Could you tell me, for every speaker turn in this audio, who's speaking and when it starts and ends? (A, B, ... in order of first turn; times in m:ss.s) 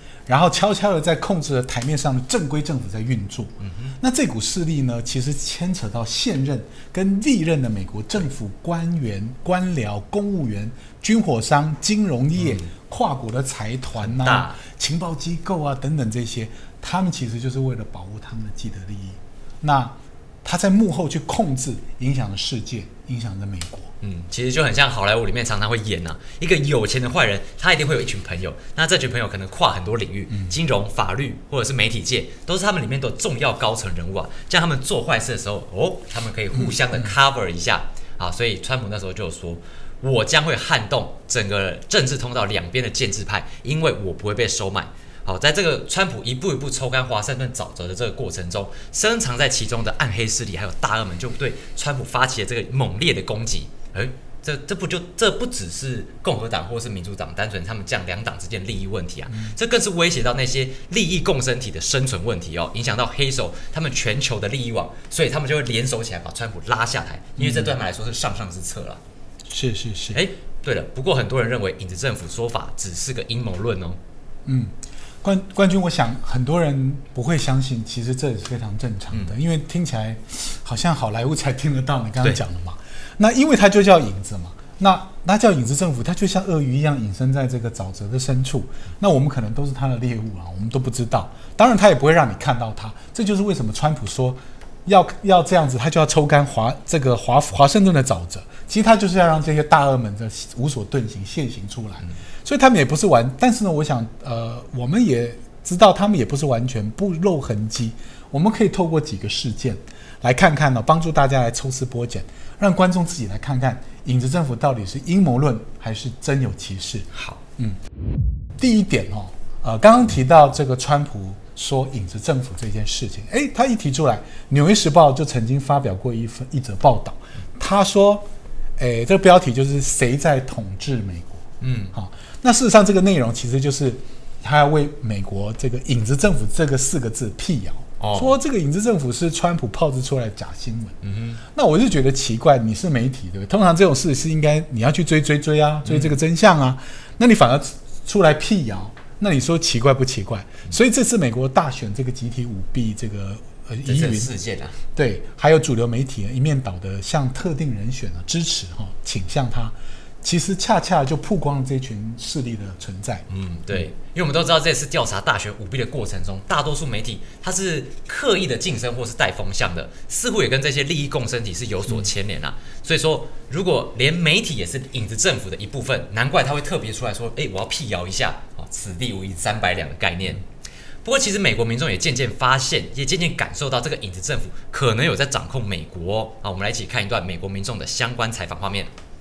0:00.3-0:23.9 A
0:03.7-0:03.9 B
0:14.0-0:14.6 B
0:24.0-1:09.0 B
0:36.5-0:37.1 A
1:07.4-1:07.7 A
1:09.5-1:10.2 A
1:10.1-1:14.0 B
1:14.4-1:57.1 A
1:57.1-1:57.4 B
1:58.6-2:08.2 A
2:08.8-2:34.3 A
2:11.6-2:11.9 B
2:18.0-2:18.3 B
2:21.0-2:21.4 B
2:25.8-2:26.1 B
2:33.8-2:34.8 B
2:34.9-2:43.2 A
2:43.3-3:00.4 B
3:01.0-3:08.9 B